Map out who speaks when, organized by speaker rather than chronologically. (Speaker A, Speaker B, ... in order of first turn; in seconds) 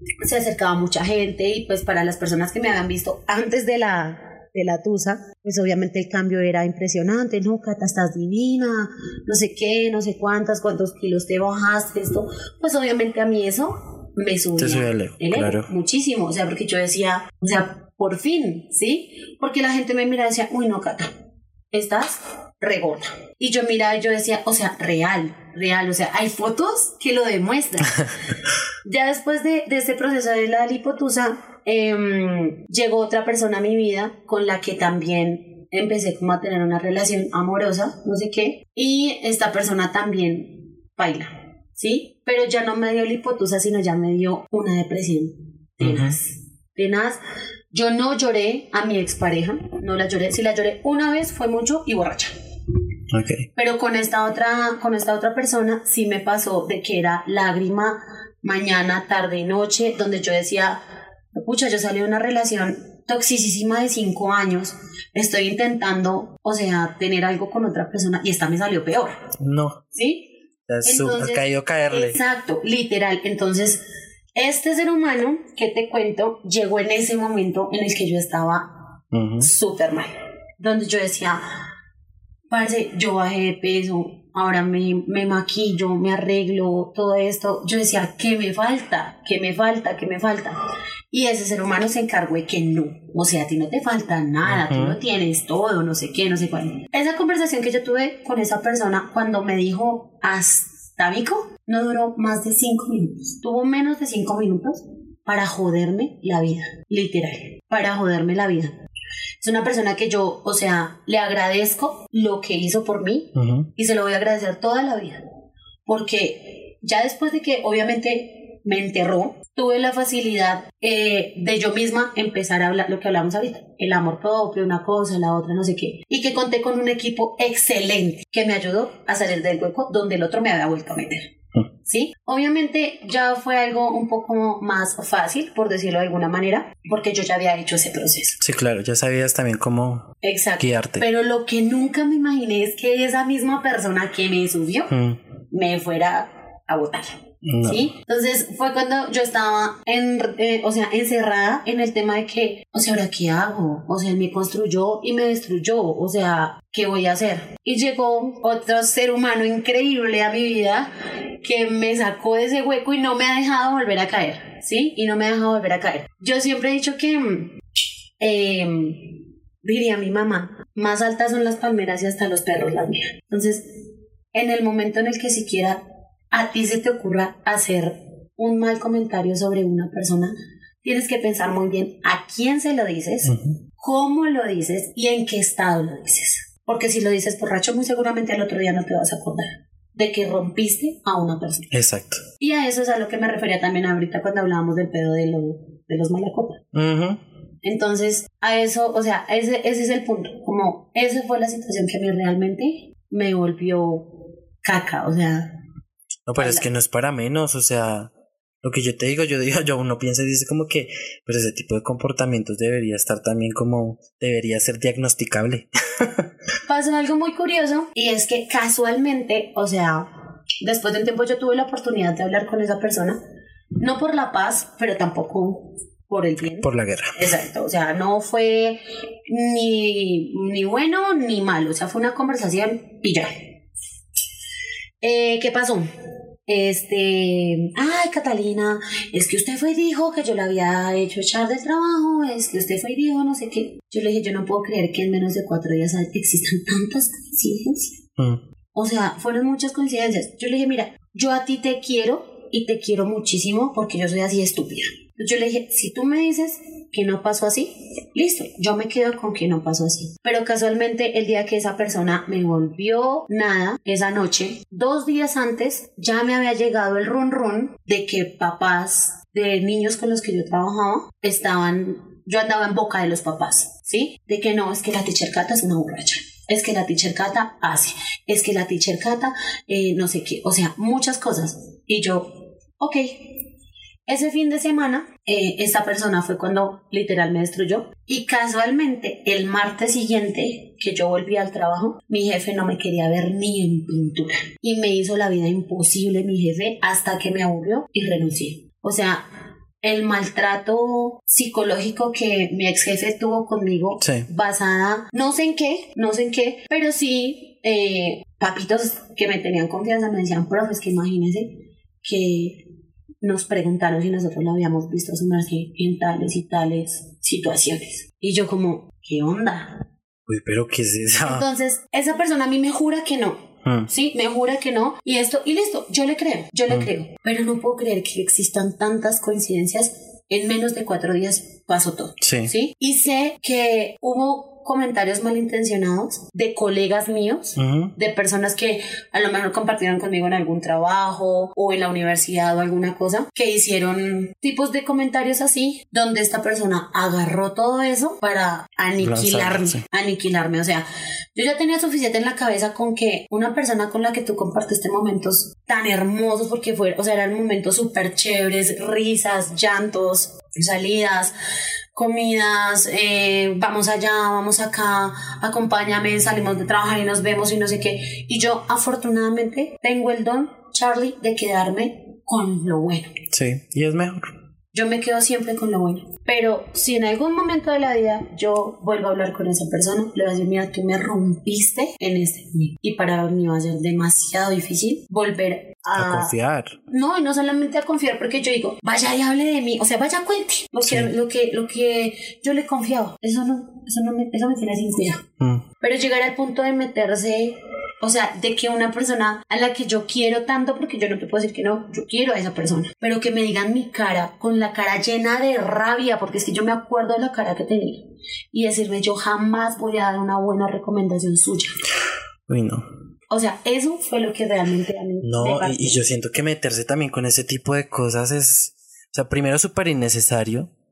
Speaker A: 0.2-21.1, 21.7-28.1, 28.8-47.2, 47.7-52.3, 53.5-60.8, 61.3-69.2, 69.9-70.3, 70.8-73.8, 74.3-78.7, 79.4-81.4, 82.5-90.6, 91.1-108.8, 109.4-115.2, 115.8-131.3, 131.8-138.4, 140.2-144.9, 145.5-160.9, 161.4-167.6, 168.2-173.7, 174.3-175.8, 176.3-191.7, 192.4-196.6, 197.6-205.5, 206.4-206.6, 216.7-220.1, 220.6-223.2, 223.8-233.3, 235.0-235.9, 236.5-248.0, 248.7-283.3, 284.1-299.3, 299.8-312.6, 313.2-319.8, 321.2-361.3, 361.9-373.1, 374.7-386.3, 386.9-395.2, 395.8-411.7, 413.3-416.0
Speaker B: 14.6-15.7, 45.8-46.2, 53.1-53.5, 69.4-69.8, 70.7-72.2, 79.1-79.5, 94.4-95.0, 113.3-113.7, 138.4-141.0, 144.9-145.2, 147.4-147.9, 183.2-183.6, 191.7-192.2, 196.7-197.2, 206.3-208.1, 208.6-216.3, 226.6-227.2, 248.2-248.4, 304.0-304.3, 320.3-321.4, 323.6-323.9, 332.2-332.5, 337.6-337.9, 349.0-349.8, 373.3-374.3, 385.9-386.8, 390.8-391.1, 395.4-395.6, 412.5-412.9, 415.2-420.7